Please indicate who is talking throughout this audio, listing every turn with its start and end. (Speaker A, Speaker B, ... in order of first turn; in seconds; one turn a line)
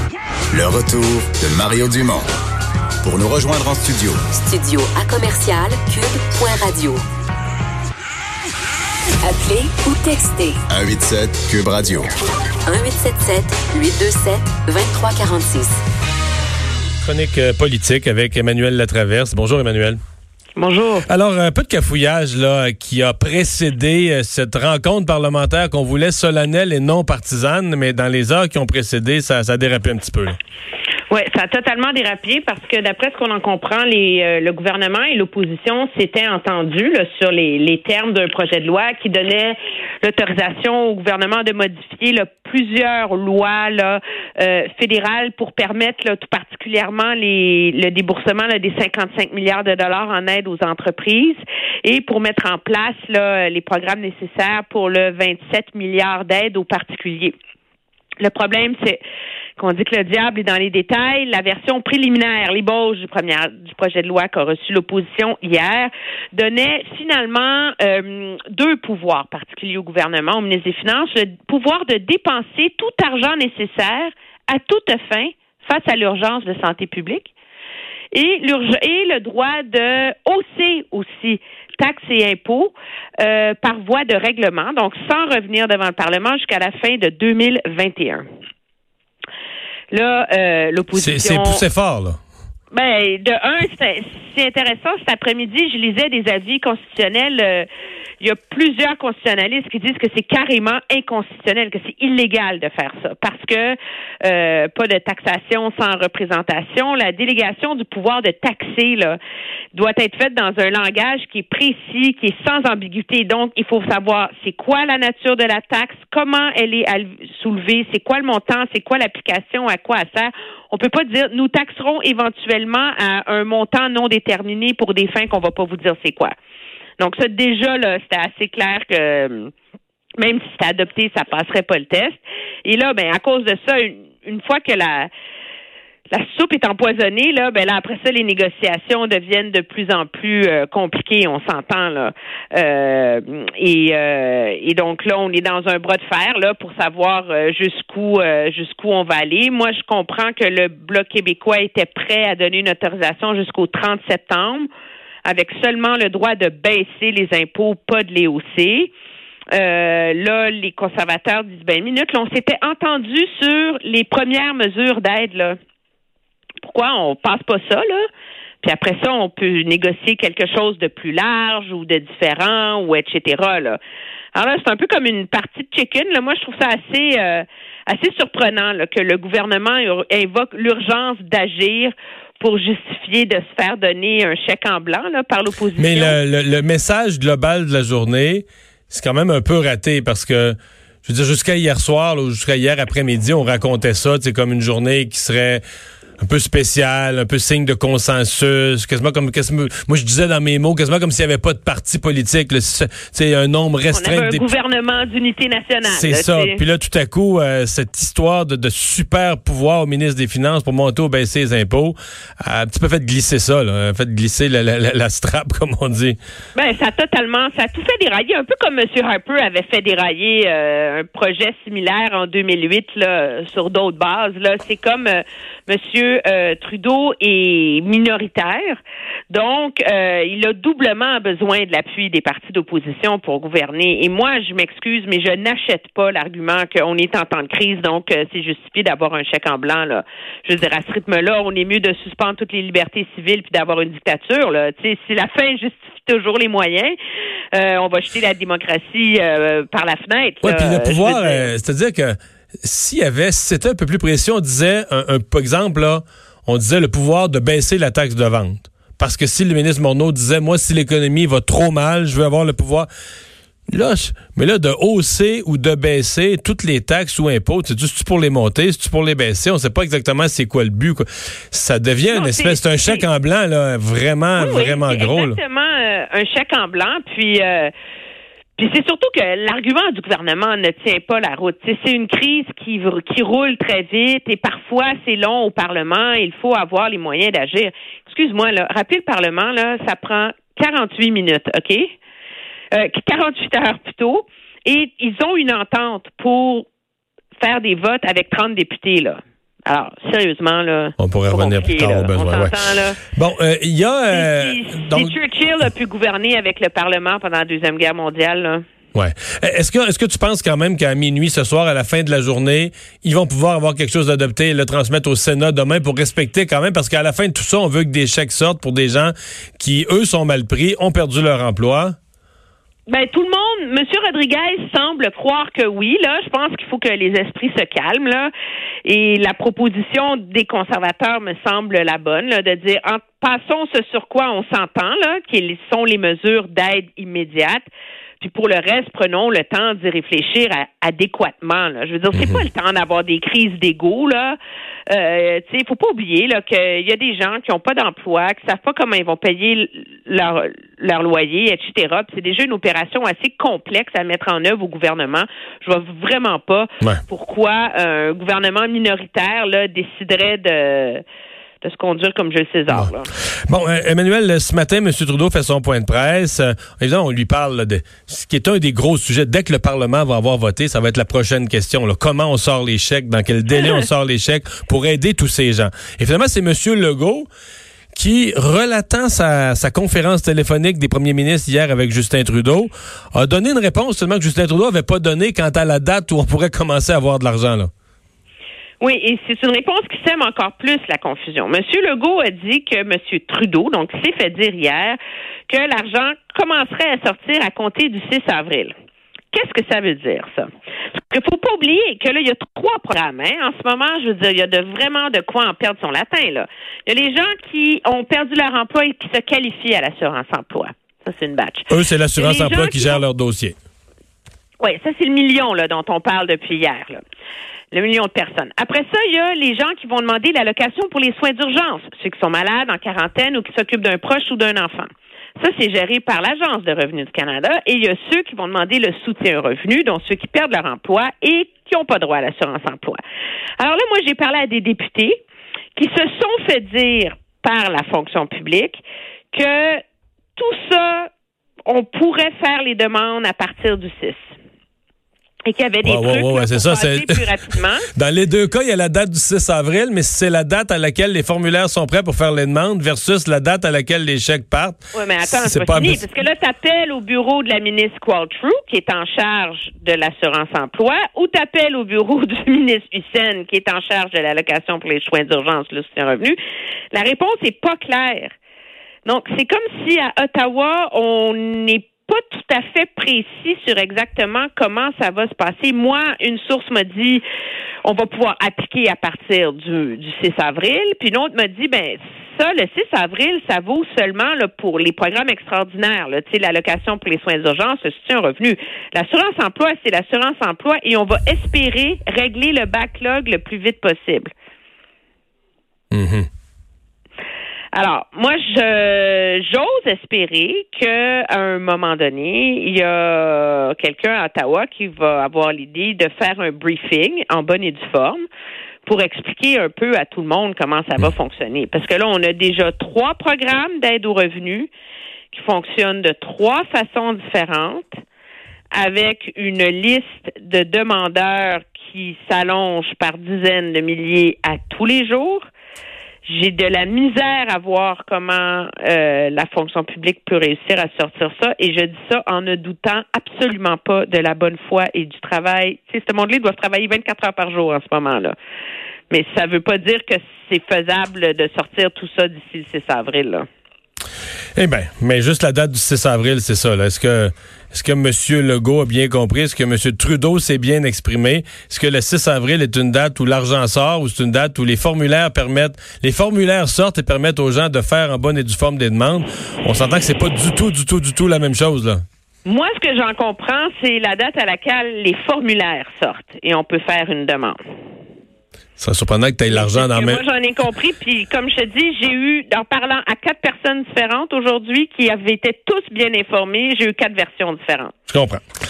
Speaker A: 0.5-2.3
Speaker A: 3.0-4.2
Speaker B: 4.3-7.0
Speaker B: 9.2-10.6
Speaker A: 10.7-12.1
Speaker B: 12.7-15.8
Speaker C: 17.0-20.0
Speaker D: 20.5-21.1
Speaker C: 21.1-30.4
Speaker D: 31.1-57.3
Speaker D: 58.2-59.0
Speaker D: 59.6-77.3
Speaker D: 78.1-88.2
Speaker D: 89.9-91.6
Speaker C: 91.0-92.2
Speaker D: 92.7-97.7
Speaker D: 98.2-109.2
Speaker D: 109.7-126.3
Speaker D: 127.0-129.5
Speaker D: 130.2-135.1
Speaker D: 136.1-154.7
Speaker D: 155.2-158.9
Speaker D: 159.5-165.6
Speaker D: 166.6-168.0
Speaker D: 168.6-173.8
Speaker D: 174.3-186.2
Speaker C: 185.8-195.6
Speaker C: 196.2-204.4
Speaker D: 203.9-206.6
Speaker C: 205.8-216.2
Speaker D: 216.5-228.8
Speaker D: 229.3-246.9
Speaker D: 247.5-251.5
Speaker C: 250.4-262.9
Speaker C: 263.7-275.4
Speaker D: 272.1-273.0
Speaker D: 274.4-277.7
Speaker D: 278.6-291.9
Speaker D: 292.7-296.6
Speaker D: 297.4-303.0
Speaker C: 301.0-302.6
Speaker C: 303.1-305.1
Speaker D: 304.1-308.6
Speaker C: 308.9-321.9
Speaker D: 322.9-328.3
Speaker D: 328.8-337.6
Speaker D: 338.2-344.4
Speaker C: 342.1-342.4
Speaker D: 344.9-361.0
Speaker D: 361.6-363.1
Speaker C: 363.5-377.3
Speaker C: 377.9-387.7
Speaker D: 388.8-398.7
Speaker D: 399.3-400.5
Speaker D: 401.0-413.0
Speaker C: 411.7-413.6
Speaker D: 414.6-417.0
Speaker D: 417.7-433.0
Speaker D: 433.6-435.2
Speaker D: 435.7-439.8
Speaker D: 440.4-441.1
Speaker D: 441.6-444.4
Speaker D: 445.4-447.9
Speaker C: 445.8-447.2
Speaker C: 447.9-456.1
Speaker D: 454.9-466.4
Speaker D: 466.9-468.3
Speaker D: 469.0-477.2
Speaker D: 477.8-494.3
Speaker C: 495.9-496.3
Speaker D: 497.7-508.2
Speaker D: 508.8-514.7
Speaker D: 515.3-518.0
Speaker D: 518.7-525.4
Speaker D: 526.2-538.3
Speaker D: 539.1-543.5
Speaker C: 544.5-562.0
Speaker D: 562.4-567.6
Speaker C: 568.8-570.2
Speaker D: 569.5-577.9
Speaker C: 578.1-578.4